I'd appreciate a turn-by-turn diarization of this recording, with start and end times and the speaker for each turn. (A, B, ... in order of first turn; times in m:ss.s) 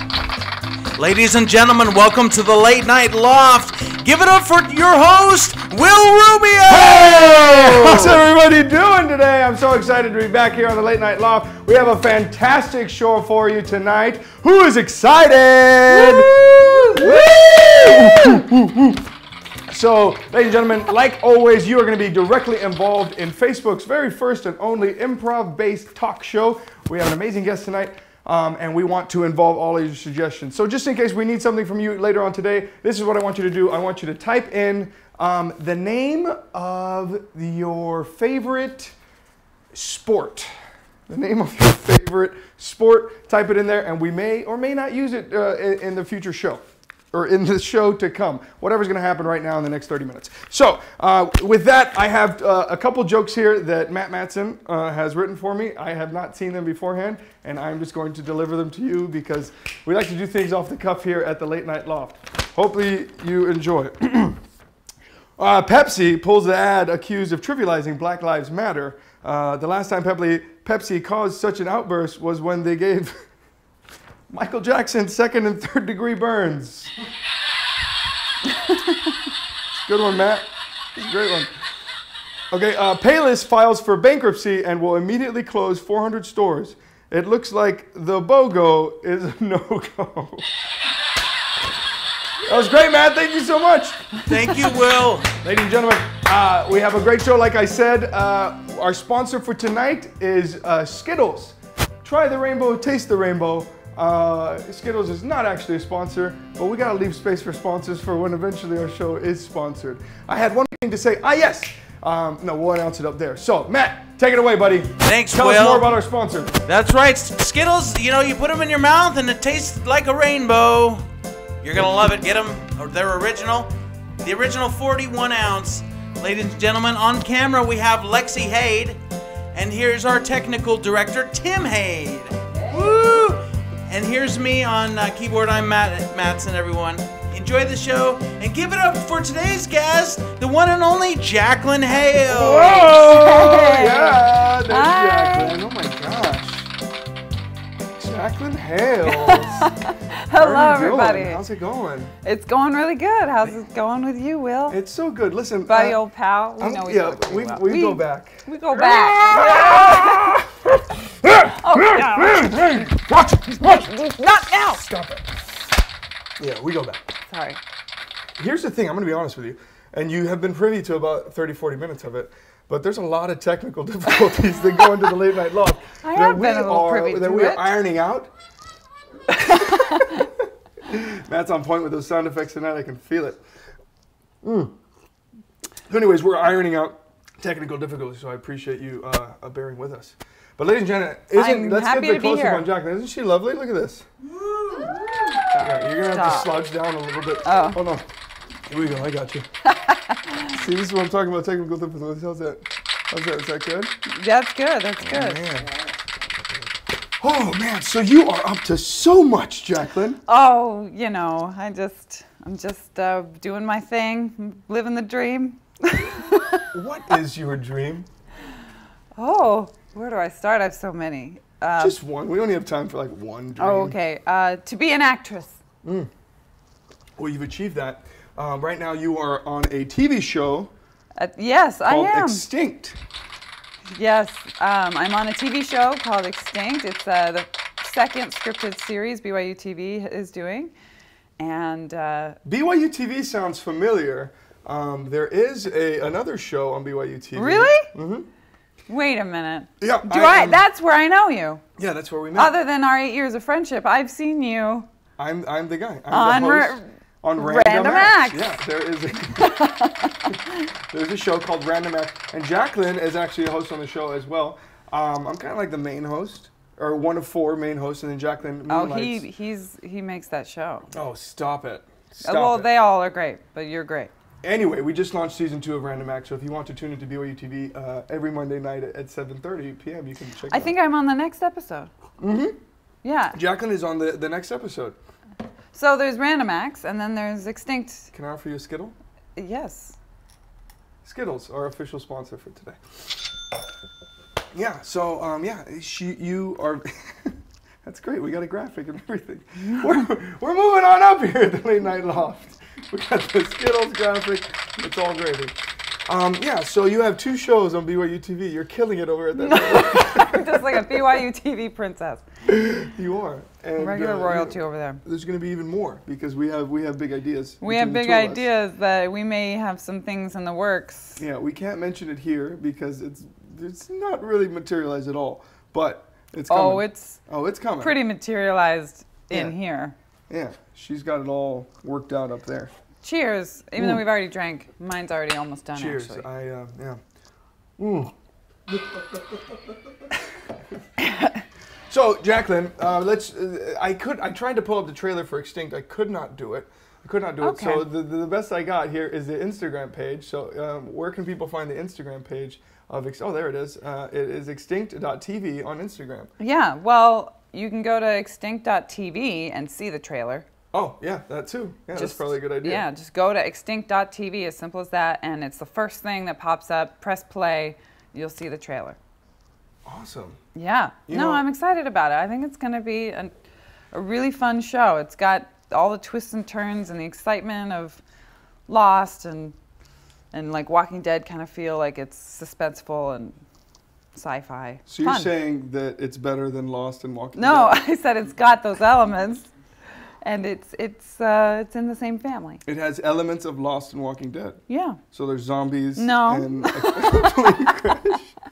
0:01.0-0:08.2 A
0:06.7-0:19.1 B
0:15.9-0:18.4 C
0:19.7-0:39.0 B
0:39.7-0:40.5 B
0:41.1-1:04.4 B
1:05.4-1:13.2 B
1:14.3-1:16.9 B
1:19.7-1:21.5 B
1:22.5-1:30.5 B
1:32.4-1:34.2 B
1:34.2-1:35.3 A
1:35.4-1:56.6 B
1:55.0-1:55.9 A
1:56.6-2:01.0 A
2:01.6-2:09.0 A
2:09.5-2:22.9 A
2:22.3-2:26.7 B
2:22.7-2:25.6 C
2:28.0-2:29.8 B
2:29.1-2:31.4 C
2:30.3-2:32.1 B
2:32.2-2:34.8 C
2:34.7-2:36.0 B
2:35.7-2:40.4 C
2:36.6-2:45.4 B
2:41.5-2:42.9 C
2:43.6-2:44.8 C
2:46.4-2:47.0 B
2:47.3-2:47.6 C
2:48.4-2:58.3 B
2:56.0-2:57.8 C
2:59.3-3:03.4 B
2:59.3-3:00.2 C
3:04.4-3:04.8 B
3:05.9-3:14.1 B
3:11.3-3:12.7 C
3:14.4-3:15.4 A
3:15.5-3:18.1 B
3:15.8-3:16.6 C
3:17.4-3:17.8 C
3:18.7-3:19.5 B
3:19.6-3:20.5 C
3:20.5-3:23.9 B
3:24.1-3:25.5 C
3:25.0-3:25.8 B
3:27.2-3:30.2 B
3:30.3-3:36.7 C
3:36.7-3:38.1 B
3:39.2-3:42.0 C
3:41.8-3:44.0 B
3:43.6-3:45.6 C
3:45.8-3:46.1 B
3:47.2-3:50.7 B
3:51.2-3:52.5 C
3:51.9-3:53.0 B
3:53.9-4:00.7 C
4:01.4-4:02.4 C
4:02.4-4:08.3 B
4:07.3-4:07.9 C
4:08.9-4:11.6 C
4:09.8-4:10.6 B
4:11.8-4:12.6 B
4:12.4-4:14.9 C
4:15.2-4:19.7 B
4:16.1-4:18.6 C
4:19.4-4:20.6 C
4:20.9-4:29.2 B
4:28.7-4:30.9 C
4:30.9-4:32.7 B
4:32.2-4:34.1 C
4:34.4-4:40.8 B
4:40.5-4:41.9 C
4:42.2-4:42.6 B
4:43.0-4:43.4 C
4:43.3-4:45.0 B
4:45.7-4:48.1 C
4:48.1-4:49.0 B
4:49.4-4:50.0 C
4:51.0-4:53.1 B
4:54.5-5:05.6 B
5:06.1-5:11.2 B
5:09.4-5:12.3 C
5:12.5-5:18.5 B
5:13.8-5:15.0 C
5:17.6-5:21.2 C
5:21.2-5:28.0 B
5:26.5-5:27.2 C
5:27.8-5:30.0 C
5:29.3-5:29.6 B
5:30.3-5:32.7 B
5:33.0-5:36.3 C
5:33.8-5:34.0 B
5:35.8-5:37.0 B
5:37.8-5:38.1 B
5:38.7-5:39.9 B
5:41.0-5:41.4 C
5:41.9-5:56.3 B
5:47.4-5:47.9 C
5:56.4-6:00.5 C
6:00.7-6:02.8 B
6:01.9-6:09.0 C
6:09.8-6:10.4 B
6:10.6-6:13.4 C
6:11.1-6:11.5 B
6:13.9-6:18.0 C
6:18.7-6:19.6 C
6:20.3-6:23.4 C
6:24.2-6:25.3 C
6:24.9-6:27.8 B
6:27.4-6:29.5 C
6:30.2-6:32.6 C
6:32.7-6:38.3 B
6:34.7-6:35.0 C
6:36.0-6:37.9 C